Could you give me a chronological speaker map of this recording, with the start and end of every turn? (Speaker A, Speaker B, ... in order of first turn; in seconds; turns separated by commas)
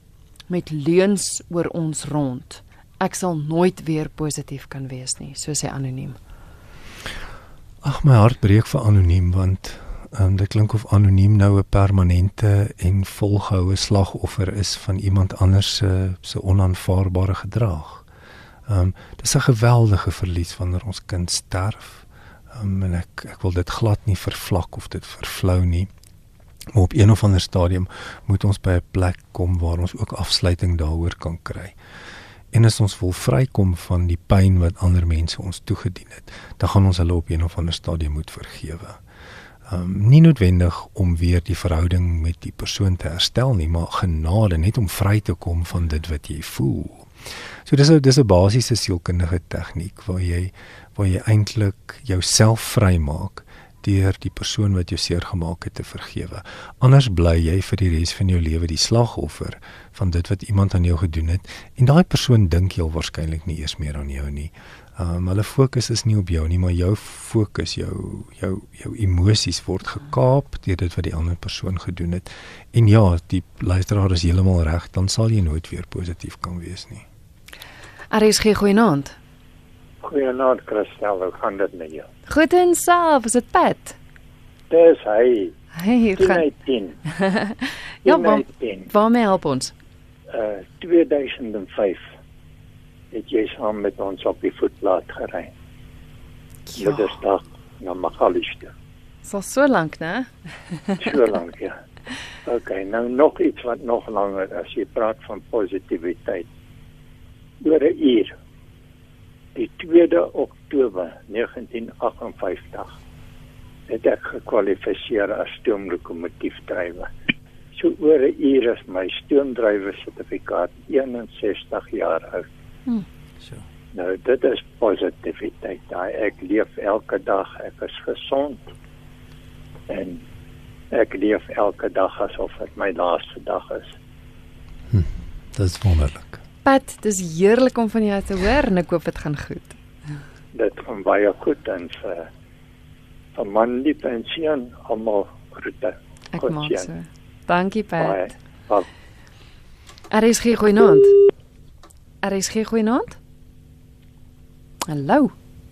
Speaker A: 0.5-6.2, Speaker B: 7.8-18.0, Speaker B: 18.7-25.9, Speaker B: 26.7-31.8, Speaker B: 32.5-39.0, Speaker B: 39.7-77.0, Speaker A: 78.1-79.2, Speaker C: 80.0-82.1, Speaker A: 82.3-84.0, Speaker C: 84.7-85.5, Speaker A: 85.8-86.4, Speaker C: 86.1-87.0, Speaker A: 87.2-89.7, Speaker C: 88.0-88.9, Speaker C: 90.3-92.1, Speaker C: 93.1-95.5, Speaker A: 96.7-97.0, Speaker C: 96.8-98.7, Speaker A: 99.2-100.3, Speaker C: 101.0-101.8, Speaker C: 102.5-106.5, Speaker C: 107.6-108.3, Speaker C: 109.5-112.9, Speaker C: 113.9-117.1, Speaker C: 117.7-122.5, Speaker C: 123.9-128.7, Speaker C: 129.9-130.2, Speaker C: 130.9-133.9, Speaker B: 134.9-136.4, Speaker A: 136.6-139.8, Speaker C: 140.5-142.3, Speaker C: 143.3-146.9, Speaker A: 146.3-148.3, Speaker C: 148.0-148.9, Speaker A: 150.1-151.2, Speaker A: 152.2-153.2, Speaker A: 154.9-155.3